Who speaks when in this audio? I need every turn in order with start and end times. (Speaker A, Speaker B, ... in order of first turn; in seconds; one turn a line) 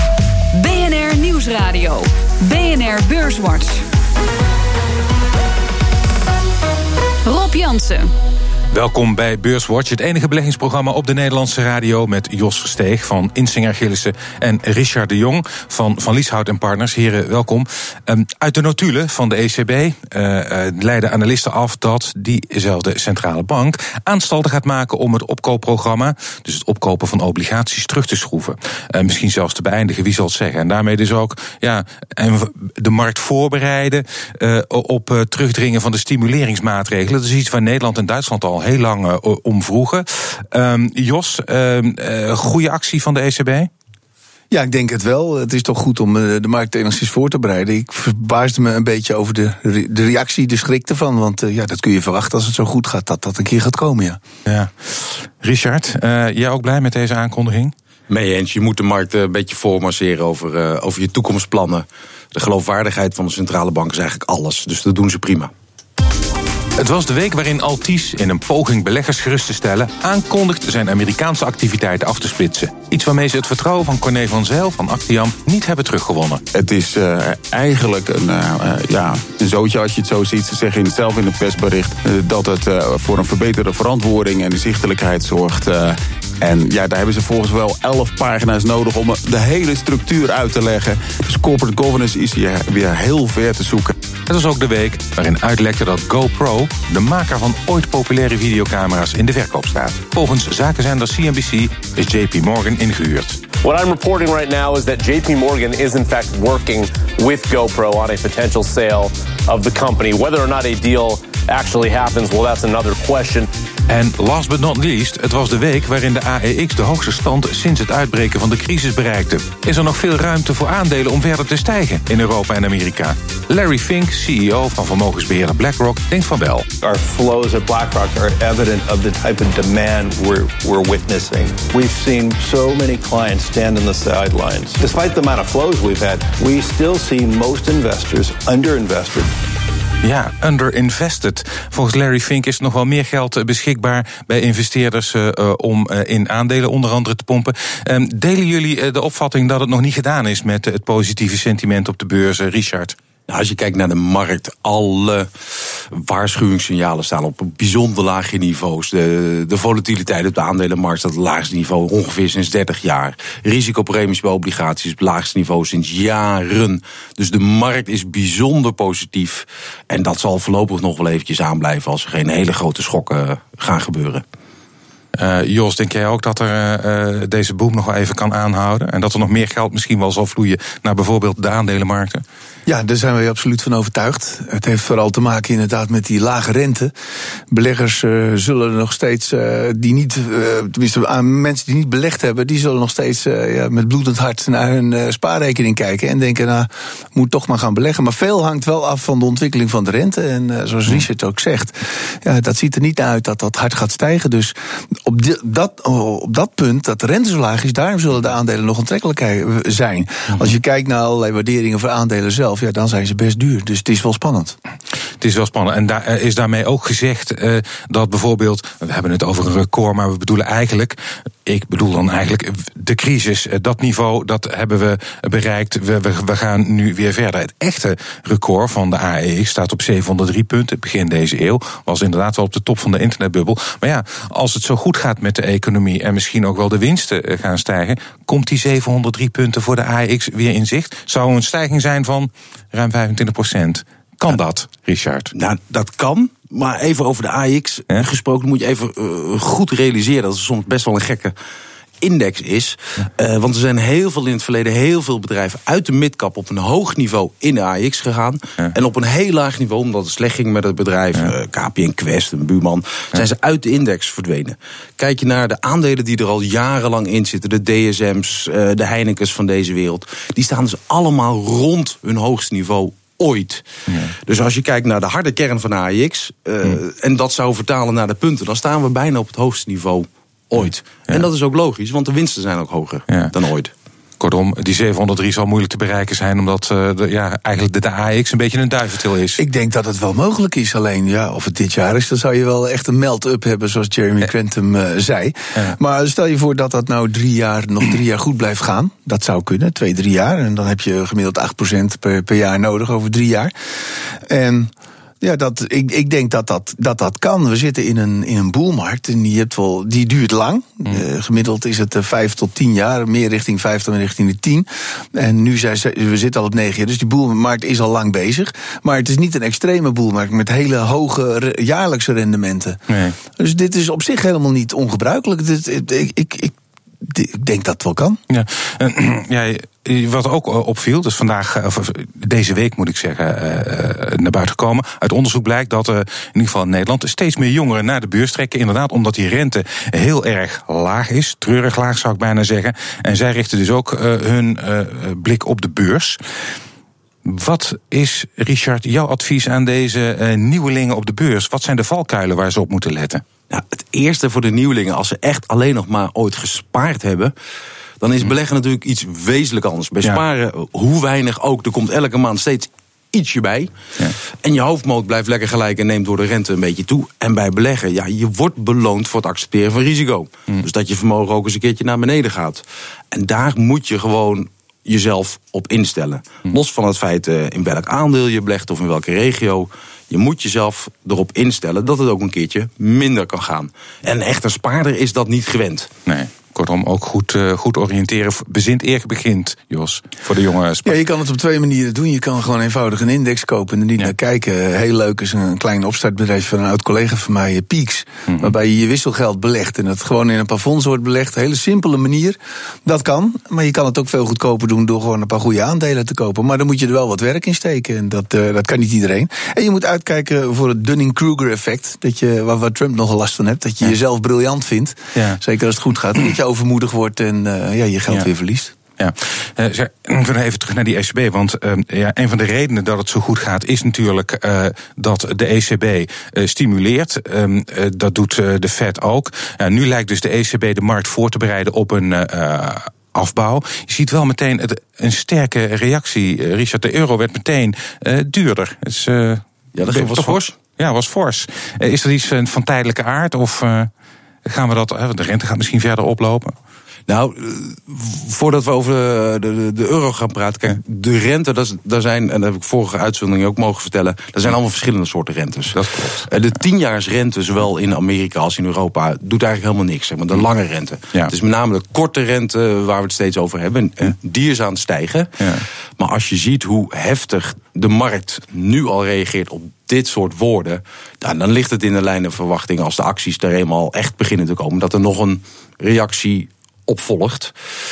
Speaker A: 0.5-3.8
Speaker A: 7.2-8.1
Speaker B: 8.7-43.7
Speaker C: 44.5-54.2
Speaker B: 54.5-57.7
Speaker D: 58.1-65.5
Speaker B: 66.8-76.4
Speaker E: 76.5-93.9
Speaker B: 94.3-103.4
Speaker F: 103.6-113.5
Speaker B: 113.9-126.7
Speaker G: 126.8-139.3
Speaker B: 140.0-152.9
Speaker D: 153.3-174.2
Speaker B: 175.1-182.2
Speaker C: 182.7-186.9
Speaker C: 187.5-214.6
Speaker B: 215.2-245.3
Speaker D: 245.3-251.3
Speaker D: 252.0-283.7
Speaker B: 273.9-274.1
Speaker B: 284.2-289.4
Speaker C: 289.4-322.8
Speaker B: 322.9-323.2
Speaker C: 323.4-328.2
Speaker B: 328.3-346.2
Speaker B: 347.2-353.2
Speaker D: 353.5-357.3
Speaker D: 358.0-363.7
Speaker D: 364.4-385.9
Speaker B: 386.1-391.0
Speaker C: 390.8-418.7
Speaker B: 415.1-415.4
Speaker B: 419.0-443.9
Speaker D: 439.7-440.5
Speaker B: 444.4-446.6
Speaker D: 447.1-465.4
Speaker B: 455.7-456.3
Speaker B: 465.4-465.6
Speaker D: 466.0-477.5